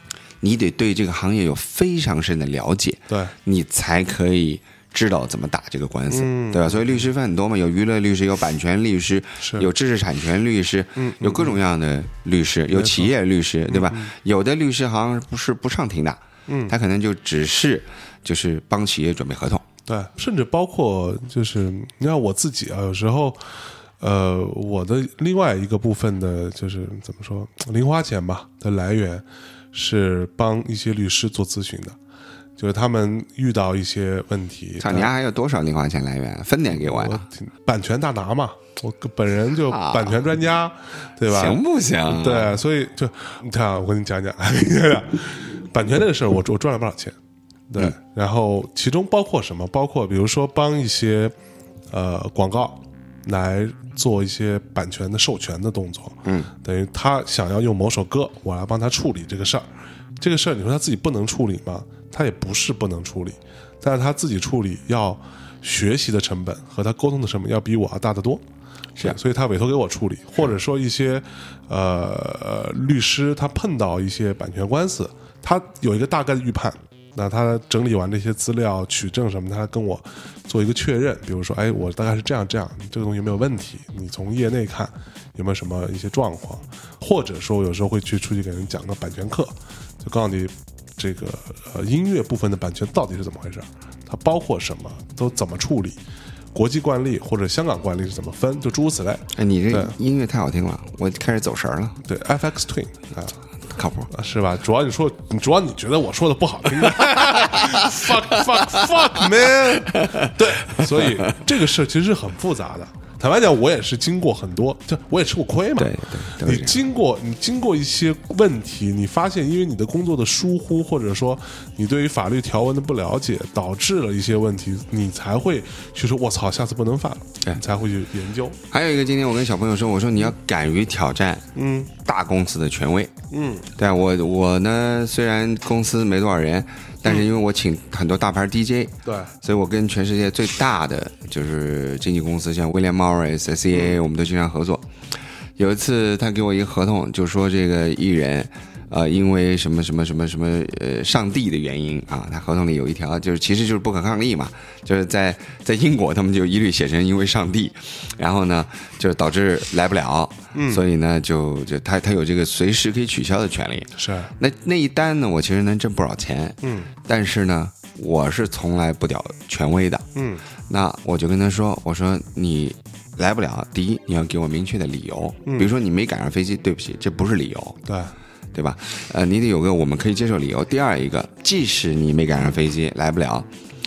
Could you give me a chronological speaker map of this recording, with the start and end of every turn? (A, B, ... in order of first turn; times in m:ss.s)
0:00.4-0:19.6 A
0:03.1-0:03.3 B
0:06.1-0:07.0 B
0:09.4-0:09.7 B
0:11.0-0:11.6 B
0:12.7-0:13.1 B
0:13.7-0:14.1 B
0:16.5-0:16.7 B
0:19.8-0:32.0 B
0:32.6-0:35.1 B
0:34.8-0:37.2 A
0:36.7-0:47.2 B
0:39.7-0:40.1 A
0:41.3-0:42.5 A
0:47.7-0:51.3 B
0:51.9-0:59.7 B
0:56.2-0:56.5 A
1:00.2-1:08.4 B
1:09.0-1:36.0 B
1:36.5-1:39.9 B
1:39.3-1:42.0 A
1:42.1-1:43.4 B
1:43.7-1:44.1 A
1:44.1-2:08.6 B
1:47.1-1:49.2 A
1:49.8-1:51.4 A
1:55.8-1:56.8 A
2:08.7-2:11.5 A
2:11.5-2:11.9 B
2:12.0-2:13.1 A
2:13.3-2:13.7 B
2:13.8-2:24.9 A
2:19.0-2:19.3 B
2:25.6-2:50.0 A
2:40.5-2:40.8 B
2:44.0-2:44.3 B
2:46.6-2:46.9 B
2:50.1-2:50.4 B
2:50.7-2:57.8 A
2:57.8-2:58.1 B
2:58.5-3:03.5 A